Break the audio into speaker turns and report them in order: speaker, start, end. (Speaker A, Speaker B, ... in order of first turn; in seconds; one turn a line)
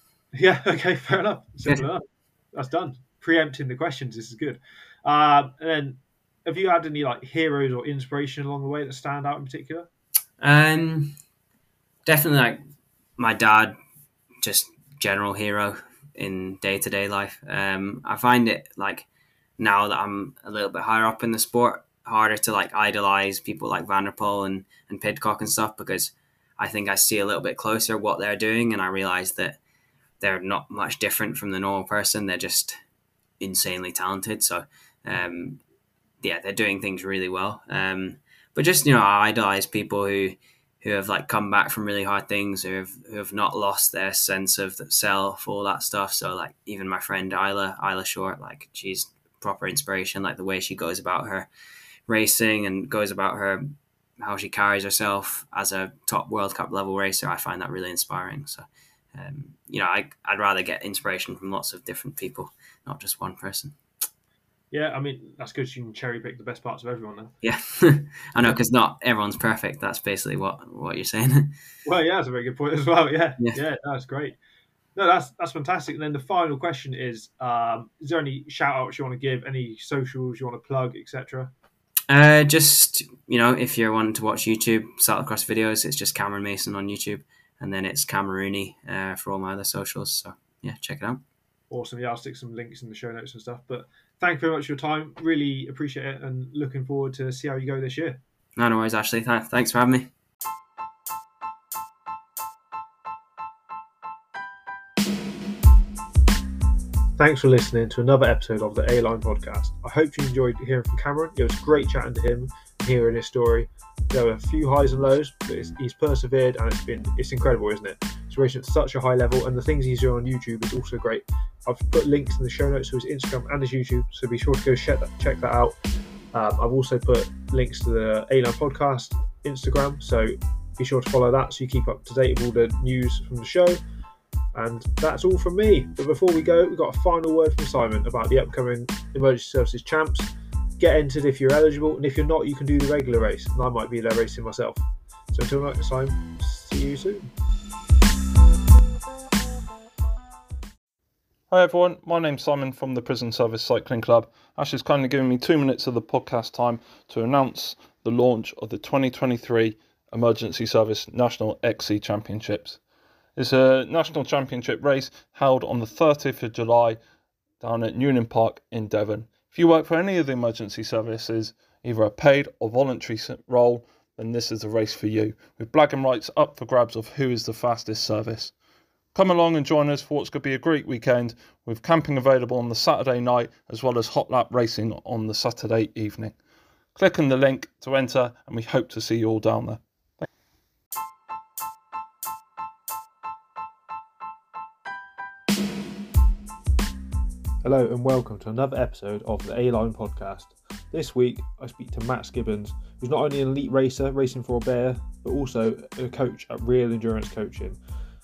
Speaker A: 0.3-9.9
Speaker B: 10.4-11.2
Speaker B: 12.1-12.6
Speaker B: 13.2-13.8
Speaker B: 14.4-19.1
Speaker B: 19.6-29.6
Speaker B: 30.2-32.8
Speaker B: 33.4-35.6
Speaker B: 36.2-51.5
Speaker B: 52.1-63.8
Speaker A: 64.7-67.3
Speaker B: 67.4-71.5
Speaker A: 71.8-74.4
Speaker A: 75.0-81.5
Speaker B: 82.1-91.2
Speaker A: 91.7-98.2
Speaker B: 98.6-100.1
Speaker A: 107.2-125.7
Speaker A: 126.3-133.8
Speaker A: 134.5-147.3
Speaker C: 151.5-162.8
Speaker C: 163.4-167.0
Speaker C: 167.6-178.5
Speaker C: 179.1-186.3
Speaker C: 186.9-190.3
Speaker A: 197.6-207.8